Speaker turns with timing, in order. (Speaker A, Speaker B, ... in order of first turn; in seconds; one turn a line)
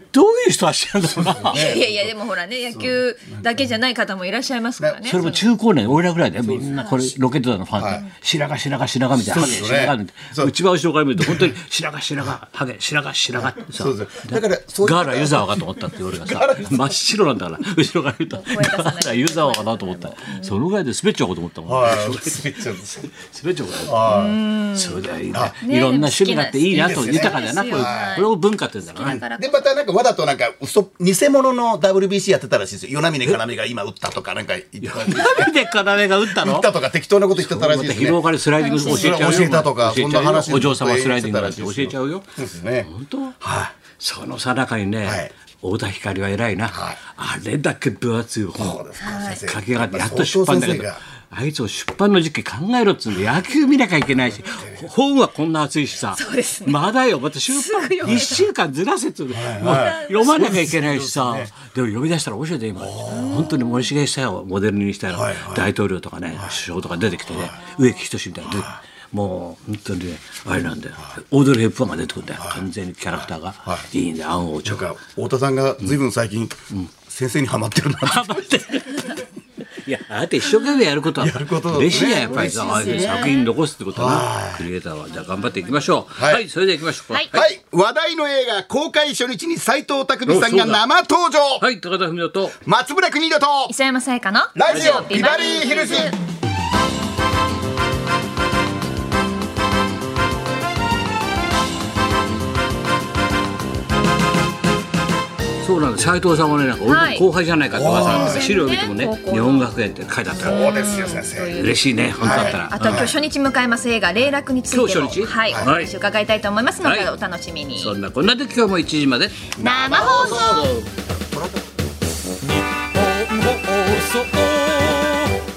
Speaker A: 0.1-1.8
Speaker B: 1.1-2.1
Speaker C: 1.5-5.5
Speaker B: 2.7-3.5
Speaker B: 4.8-5.3
Speaker A: 5.0-24.1
Speaker B: 6.3-7.2
Speaker B: 7.8-8.0
Speaker B: 9.2-10.5
Speaker B: 11.2-11.5
Speaker B: 13.3-17.0
Speaker C: 18.3-20.5
Speaker B: 21.7-23.1
Speaker B: 23.8-24.4
Speaker C: 24.1-29.6
Speaker A: 24.7-29.2
Speaker B: 25.3-25.6
Speaker B: 26.7-28.2
Speaker B: 29.0-35.6
Speaker A: 34.8-36.7
Speaker B: 36.2-42.9
Speaker A: 37.3-42.3
Speaker C: 38.6-39.5
Speaker A: 42.8-43.4
Speaker B: 43.4-43.7
Speaker A: 43.9-48.8
Speaker B: 45.0-45.3
Speaker B: 46.7-47.0
Speaker B: 48.6-51.0
Speaker C: 49.0-49.4
Speaker A: 49.4-74.9
Speaker B: 54.1-54.9
Speaker C: 56.1-56.8
Speaker C: 57.5-58.5
Speaker B: 58.1-58.4
Speaker B: 59.3-61.5
Speaker C: 59.6-60.5
Speaker B: 62.8-63.5
Speaker C: 63.1-63.9
Speaker B: 65.1-65.7
Speaker B: 67.3-67.6
Speaker B: 68.4-68.8
Speaker B: 72.3-73.9
Speaker B: 74.6-78.6
Speaker A: 78.0-79.2
Speaker A: 79.8-87.5
Speaker B: 81.2-83.3
Speaker C: 81.9-83.5
Speaker B: 83.9-84.7
Speaker C: 85.3-85.7
Speaker B: 86.1-86.5
Speaker B: 87.3-91.6
Speaker A: 90.2-90.8
Speaker A: 91.6-92.6
Speaker B: 92.6-93.7
Speaker C: 93.7-96.2
Speaker B: 94.5-96.1
Speaker A: 105.6-110.6
Speaker C: 106.8-107.2
Speaker B: 107.7-108.5
Speaker C: 107.9-109.7
Speaker C: 110.4-118.0
Speaker B: 110.4-113.1
Speaker A: 111.5-113.1
Speaker A: 114.7-115.9
Speaker A: 116.8-117.1
Speaker A: 117.8-119.5
Speaker B: 119.5-121.7
Speaker C: 119.6-120.8